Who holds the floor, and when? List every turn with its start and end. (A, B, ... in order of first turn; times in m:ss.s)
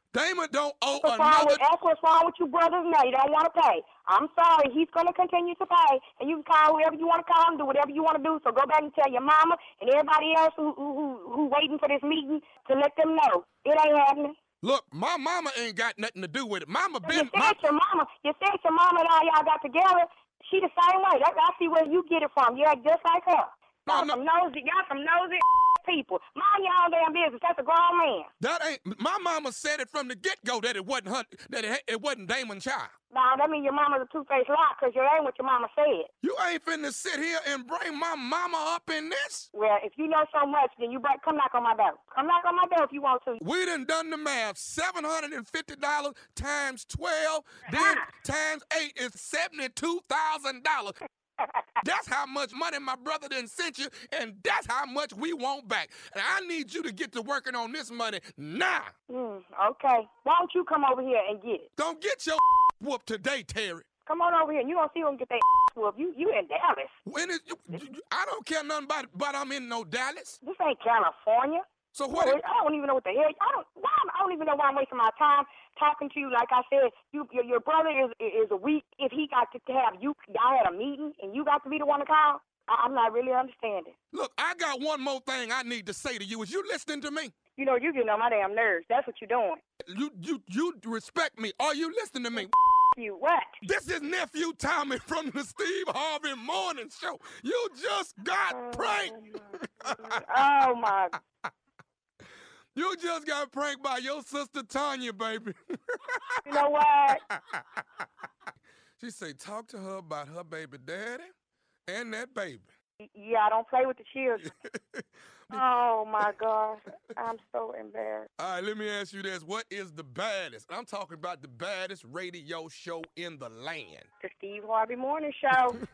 0:00.1-0:01.6 A
0:01.0-0:14.4 B
0:14.6-0:17.7 A
0:17.0-0:28.3 B
0:23.9-0:24.2 A
0:28.4-0:32.9 A
0:33.1-0:36.1 B
0:36.2-0:39.5 A
0:39.5-0:43.4 B
0:43.4-0:51.0 A
0:47.7-0:48.1 B
0:51.4-0:51.8 B
0:51.8-0:58.9 A
0:59.1-1:01.7 B
1:01.8-1:03.8 A
1:04.0-1:07.0 B
1:07.0-1:10.4 A
1:10.4-1:23.9 B
1:11.9-1:12.4 A
1:24.1-1:27.3 A
1:27.6-1:29.6 B
1:29.8-1:32.5 A
1:32.3-1:33.6 B
1:33.6-1:40.2 A
1:38.5-1:41.1 B
1:42.7-1:45.6 A
1:46.1-1:46.4 A
1:46.4-1:47.2 B
1:47.3-1:47.8 A
1:49.0-1:51.3 A
1:51.9-1:52.7 A
1:53.0-1:54.5 B
1:54.4-1:55.6 A
1:55.5-1:58.3 B
1:58.4-2:04.1 A
2:04.2-2:05.8 B